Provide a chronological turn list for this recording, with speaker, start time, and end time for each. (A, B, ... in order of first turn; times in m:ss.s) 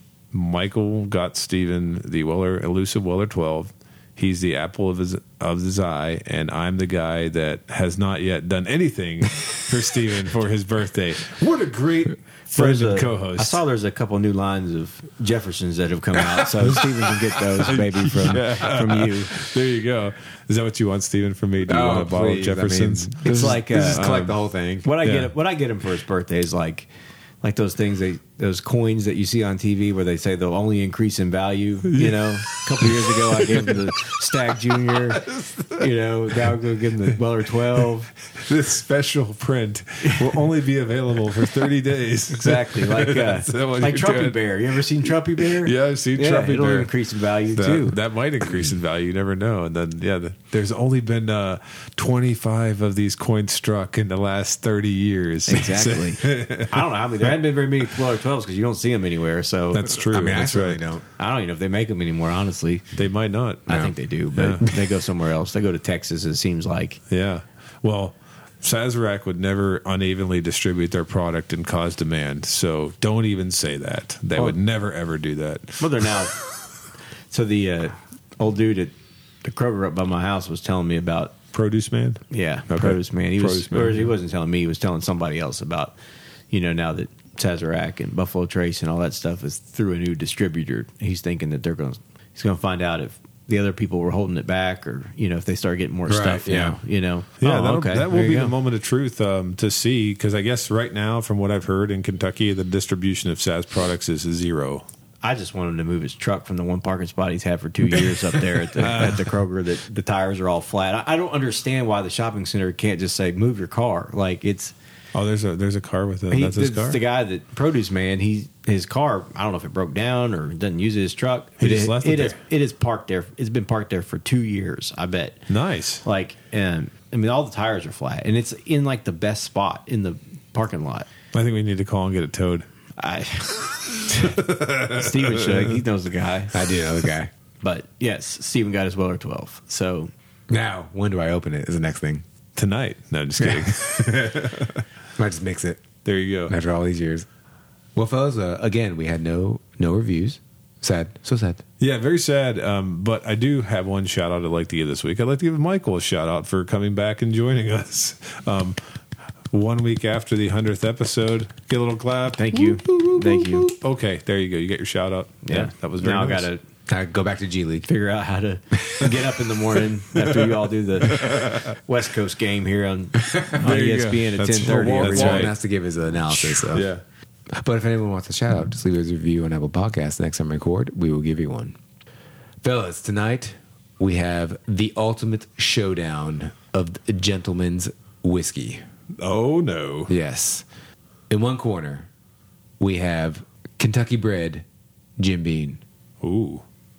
0:00.3-0:13.6 A
0:12.5-0:19.3 B
0:17.6-0:24.4 A
0:21.6-0:24.9 C
0:23.2-0:24.3 B
0:24.8-0:26.9 B
0:25.0-0:25.3 A
0:27.4-0:38.1 B
0:31.9-0:33.8 A
0:35.2-0:35.8 A
0:38.3-0:44.4 A
0:40.0-0:40.4 B
0:42.3-0:48.0 B
0:45.4-0:46.9 A
0:47.5-0:56.9 A
0:55.5-0:59.9 B
0:59.7-1:00.8 A
1:00.0-1:01.0 C
1:01.2-1:02.8 B
1:03.0-1:03.8 A
1:03.7-1:07.0 B
1:03.7-1:03.9 C
1:04.3-1:04.7 A
1:07.1-1:16.2 A
1:15.8-1:16.4 B
1:17.3-1:18.9 B
1:19.4-1:21.4 B
1:21.5-1:24.1 A
1:22.3-1:25.9 B
1:26.5-1:38.5 B
1:36.1-1:36.8 C
1:37.4-1:44.8 A
1:45.2-1:54.7 B
1:48.8-1:49.3 A
1:55.1-1:57.0 A
1:56.3-2:05.4 B
2:01.6-2:02.4 A
2:05.5-2:06.0 A
2:06.0-2:11.1 B
2:11.3-2:12.6 A
2:13.0-2:16.6 B
2:14.1-2:15.8 A
2:16.5-2:17.3 C
2:17.6-2:20.1 B
2:20.5-2:22.2 C
2:22.6-2:24.8 A
2:23.4-2:24.4 C
2:25.2-2:25.8 C
2:26.0-2:26.5 A
2:26.5-2:27.2 C
2:27.9-2:31.6 C
2:31.8-2:38.8 A
2:39.5-2:46.5 A
2:42.4-2:43.7 B
2:45.4-2:46.6 B
2:46.9-2:47.9 C
2:47.8-2:55.5 B
2:50.4-2:51.8 A
2:53.5-2:55.5 A
2:54.6-2:56.9 C
2:56.7-2:57.0 A
2:57.5-3:01.8 C
3:02.6-3:08.8 C
3:09.2-3:10.2 A
3:10.1-3:10.7 C
3:11.3-3:12.1 C
3:12.8-3:14.6 C
3:15.2-3:15.8 C
3:16.2-3:16.6 A